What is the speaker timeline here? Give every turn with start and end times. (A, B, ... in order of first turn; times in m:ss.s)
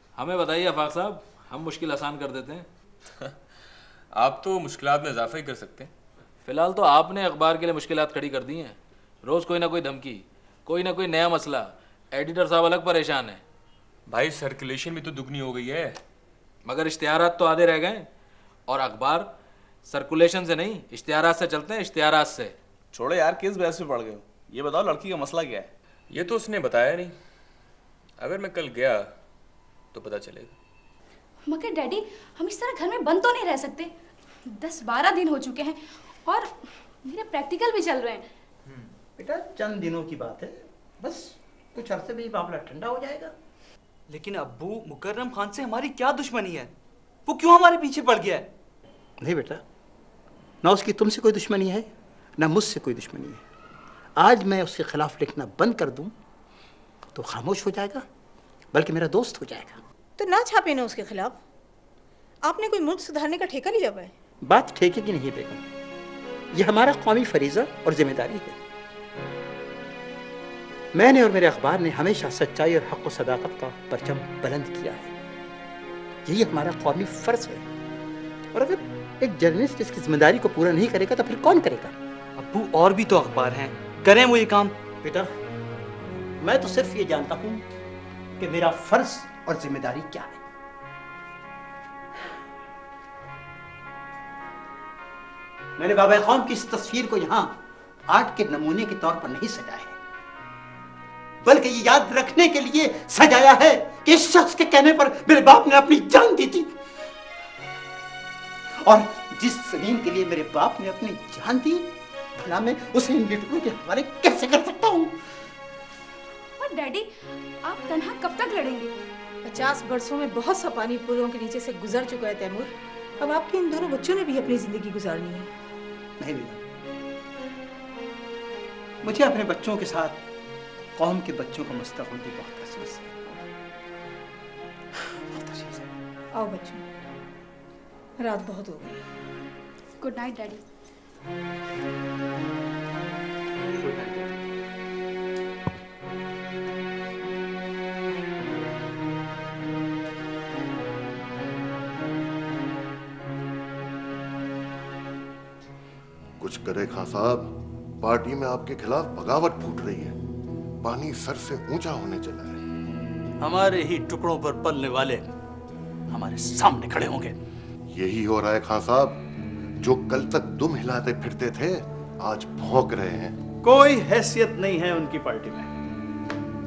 0:00.2-0:02.7 A
0:04.1-0:05.9 B
0:06.4-0:13.4 A
0:14.1-0:16.0 B
0:16.6-0:18.1 A
0:18.7-0:19.3 A
0:19.8-0:22.5 A
0:22.9-0:25.7 C
0:26.1-0:27.2 B
0:28.2-0:29.1 B
0:29.9-0:30.5 B
0:31.5-0:33.9 D
0:34.5-0:36.5 D
0:37.0-0:38.2 D
0:39.2-0:43.3 E
0:44.1-0:46.7 F
0:47.2-0:48.5 F
0:49.2-0:49.6 E
0:50.6-0:53.4 E
0:54.2-0:56.1 E
0:57.1-0:58.0 E
0:58.7-0:59.8 E
1:00.2-1:01.4 G
1:02.4-1:04.1 G
1:04.4-1:05.6 E
1:06.5-1:08.6 E
1:10.9-1:15.1 E
1:16.2-1:17.6 E
1:18.5-1:21.9 E
1:22.4-1:24.7 F
1:25.0-1:25.3 E
1:26.4-1:27.6 E
1:28.4-1:30.4 E
1:35.8-1:37.6 E
1:38.1-1:40.0 E
1:41.4-1:46.7 E
1:48.8-1:55.1 E
1:56.6-1:57.1 D
1:57.6-1:58.9 D
1:59.4-2:05.5 G
2:06.2-2:06.6 E
2:09.0-2:10.2 E
2:11.0-2:13.4 E
2:15.0-2:15.9 E
2:16.3-2:16.8 G
2:18.2-2:18.9 G
2:20.0-2:20.6 D
2:23.8-2:24.3 C
2:36.4-2:40.2 H
2:40.8-2:42.6 H
2:43.4-2:45.3 I
2:46.1-2:47.4 I
2:47.9-2:49.2 H
2:49.8-2:53.4 H
2:53.6-2:55.7 I